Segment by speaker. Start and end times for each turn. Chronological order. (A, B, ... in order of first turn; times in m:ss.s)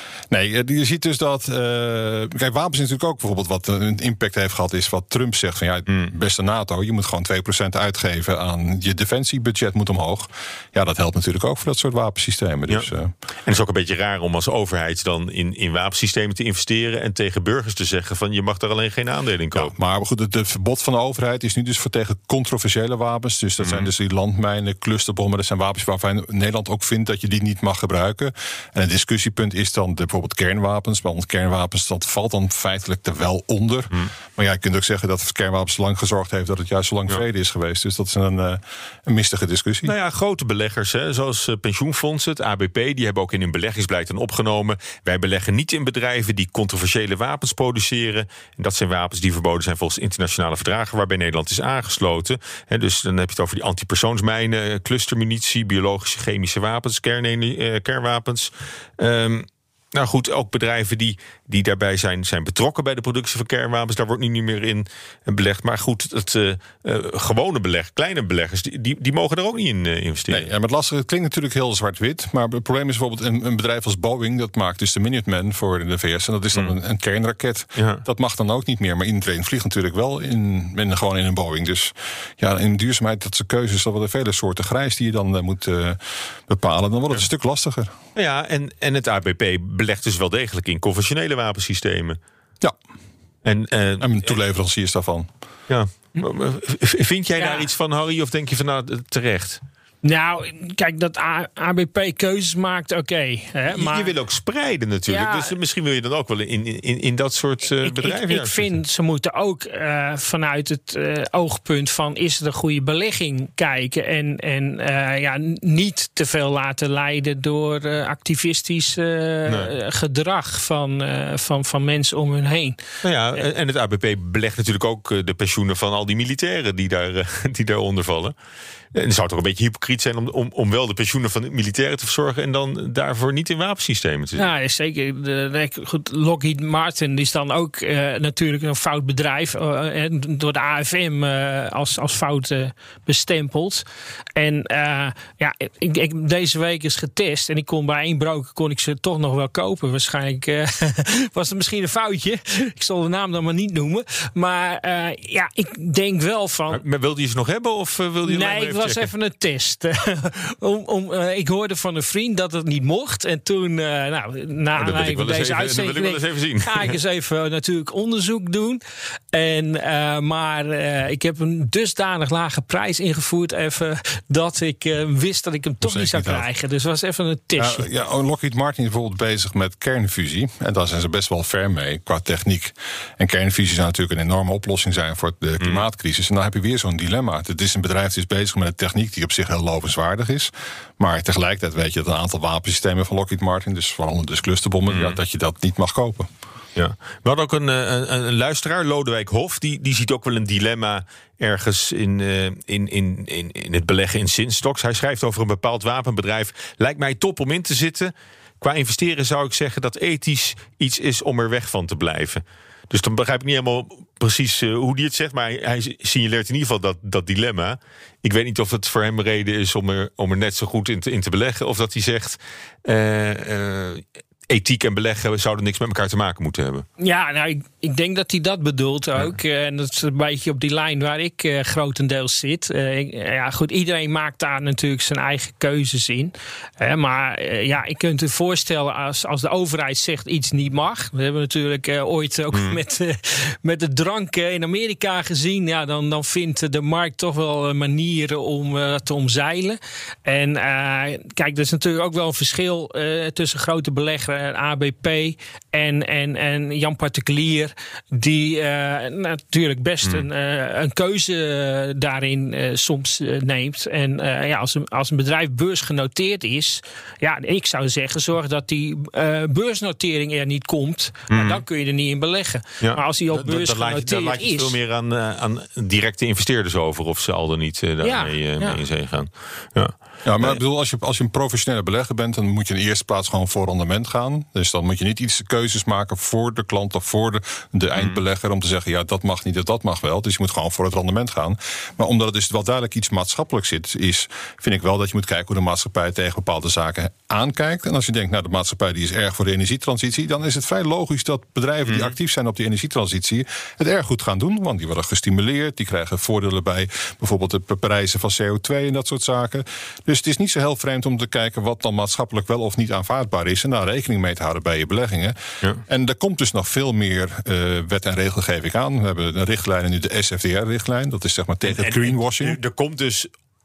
0:00.3-0:13.1 A
0:05.9-0:06.1 B
0:13.5-0:19.7 B
0:19.5-0:40.0 A
0:23.6-0:23.9 B
0:39.8-1:10.5 B
1:10.3-1:27.9 A
1:17.8-1:18.0 B
1:28.2-1:32.2 B
1:33.4-1:34.4 B
1:34.0-1:35.3 A
1:35.7-1:39.6 B
1:37.4-1:37.7 C
1:40.0-1:44.2 C
1:43.7-1:48.8 B
1:45.1-1:45.6 C
1:47.8-2:02.8 C
2:03.0-2:08.4 B
2:08.9-2:14.5 B
2:14.4-2:23.8 C
2:24.4-2:36.8 C
2:36.7-2:39.1 B
2:38.3-2:48.8 C
2:44.8-2:47.0 B
2:49.3-2:57.9 C
2:55.8-2:56.5 A
2:57.6-3:16.3 A
3:14.9-3:15.2 B
3:16.8-3:46.9 B
3:47.0-4:34.8 C
4:02.5-4:02.8 B
4:31.3-4:31.6 B
4:32.8-4:40.6 B
4:38.0-4:38.8 C
4:40.2-5:15.4 A
5:01.8-5:02.1 B
5:15.9-5:22.6 A
5:21.7-5:23.3 B